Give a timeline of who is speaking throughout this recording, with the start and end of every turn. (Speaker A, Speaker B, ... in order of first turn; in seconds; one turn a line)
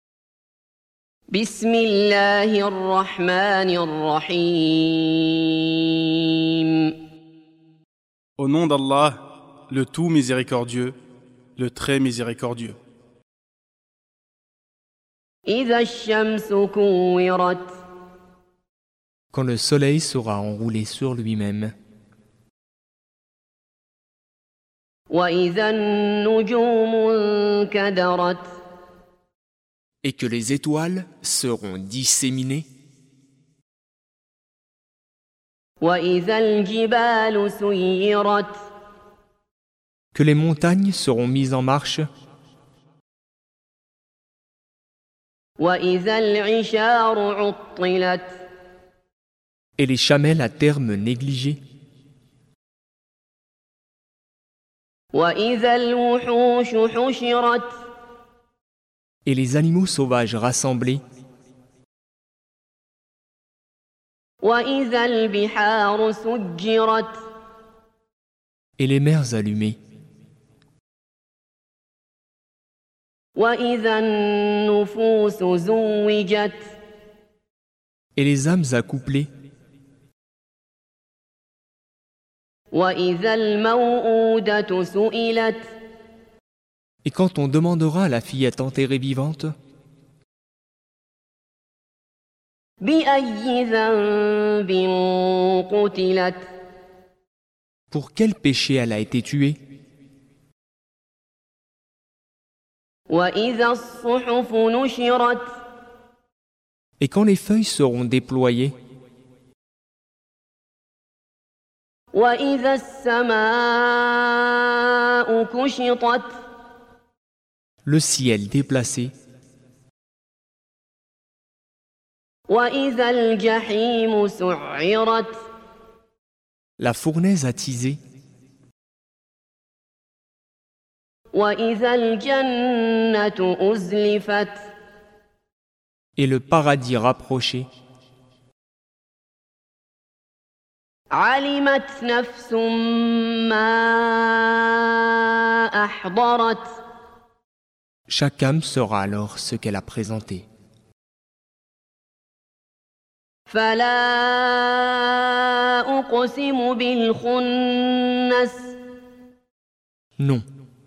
Speaker A: 1.3-7.0
Speaker B: 8.4-11.0
Speaker B: 11.6-12.8
Speaker A: 15.5-17.7
Speaker C: 19.3-21.7
Speaker A: 25.1-28.5
Speaker C: 30.0-32.7
Speaker A: 35.8-38.6
Speaker C: 40.1-42.1
Speaker A: 45.6-48.4
Speaker C: 49.8-51.6
Speaker A: 55.1-57.7
Speaker C: 59.2-61.0
Speaker A: 64.4-67.2
Speaker C: 68.8-69.8
Speaker A: 73.4-76.7
Speaker C: 78.2-79.3
Speaker A: 82.7-85.7
Speaker C: 87.0-89.5
Speaker A: 92.8-96.5
Speaker C: 97.9-99.6
Speaker A: 103.1-105.5
Speaker C: 107.0-108.7
Speaker A: 112.1-116.4
Speaker C: 117.8-119.1
Speaker A: 122.5-125.4
Speaker C: 126.8-128.0
Speaker A: 131.3-134.7
Speaker C: 136.2-137.7
Speaker A: 141.1-146.7
Speaker C: 148.1-150.5
Speaker A: 153.5-158.8
Speaker C: 160.2-160.4